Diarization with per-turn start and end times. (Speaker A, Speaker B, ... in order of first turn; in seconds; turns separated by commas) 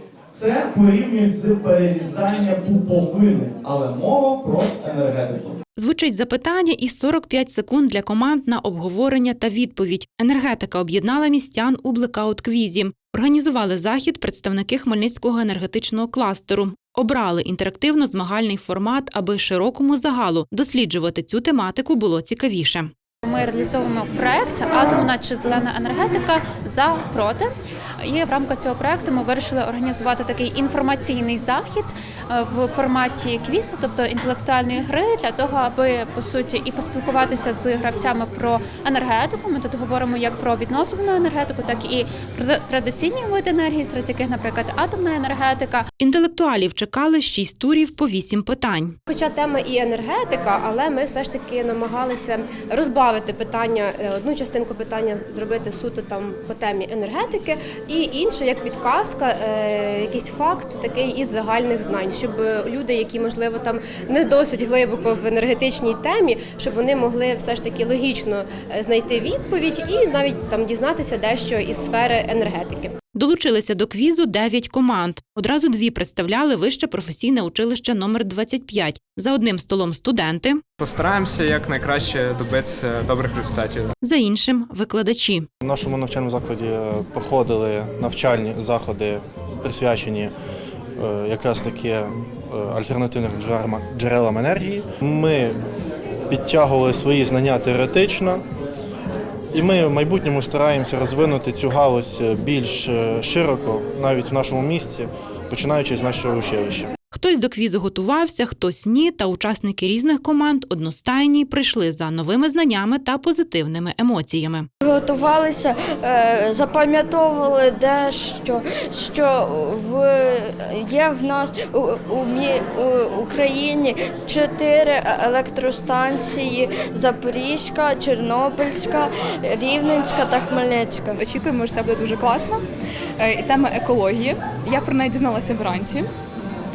Speaker A: 0.3-5.6, Speaker B: 5.8-22.9, Speaker C: 23.2-27.5, Speaker C: 28.0-45.9, Speaker B: 46.0-49.0, Speaker D: 49.1-72.9, Speaker B: 73.1-80.6, Speaker E: 80.8-83.9, Speaker B: 84.0-85.5, Speaker F: 85.6-90.3, Speaker F: 91.0-95.6, Speaker F: 96.3-98.4, Speaker F: 99.5-106.9, Speaker B: 107.1-114.7, Speaker G: 114.8-131.2, Speaker H: 131.2-132.6, Speaker H: 133.2-136.1